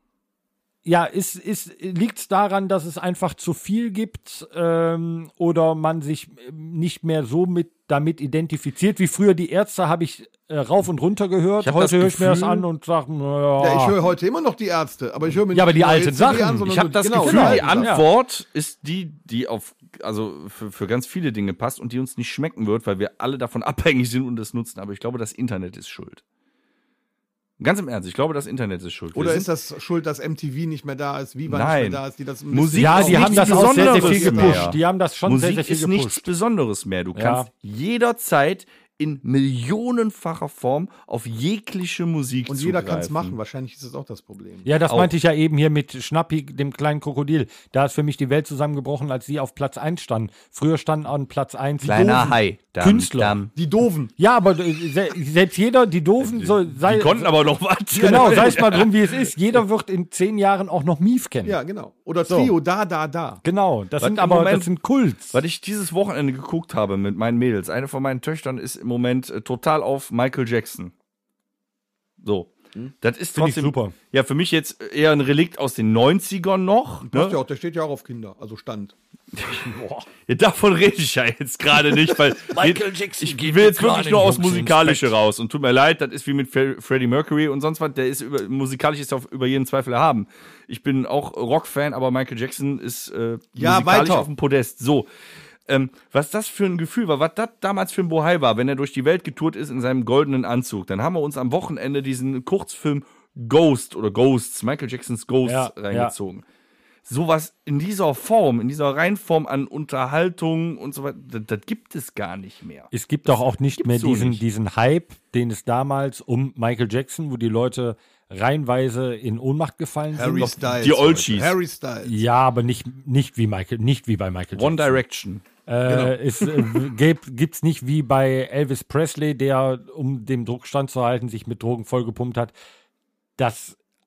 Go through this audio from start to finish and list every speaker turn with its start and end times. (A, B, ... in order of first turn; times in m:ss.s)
0:00.8-0:14.0 A
0:11.6-0:12.6 B
0:13.6-0:17.9 C
0:15.5-0:18.0 A
0:16.6-0:26.2 B
0:27.6-0:29.5 B
0:29.1-0:34.8 C
0:31.4-0:43.3 B
0:32.8-0:36.3 A
0:37.2-0:37.5 A
0:42.5-0:44.7 C
0:44.6-0:53.4 A
0:51.8-0:53.5 B
0:53.5-0:54.1 C
0:54.2-0:57.3 A
0:56.2-0:59.3 B
0:58.0-1:01.6 A
0:58.0-0:58.5 C
1:01.4-1:03.4 C
1:02.2-1:02.5 A
1:03.4-1:05.4 A
1:04.0-1:04.8 B
1:05.3-1:10.9 B
1:12.2-1:17.4 B
1:13.3-1:13.9 A
1:17.0-1:18.9 C
1:19.3-1:19.7 B
1:19.5-1:20.0 A
1:20.2-1:35.1 B
1:22.4-1:25.1 A
1:33.6-1:34.3 C
1:35.7-1:46.4 B
1:45.4-1:46.1 A
1:47.0-1:54.4 B
1:52.9-2:00.6 A
2:00.1-2:02.2 C
2:00.7-2:01.5 B
2:02.0-2:05.0 A
2:04.5-2:05.4 B
2:05.6-2:12.5 A
2:05.9-2:06.1 C
2:13.4-2:13.8 A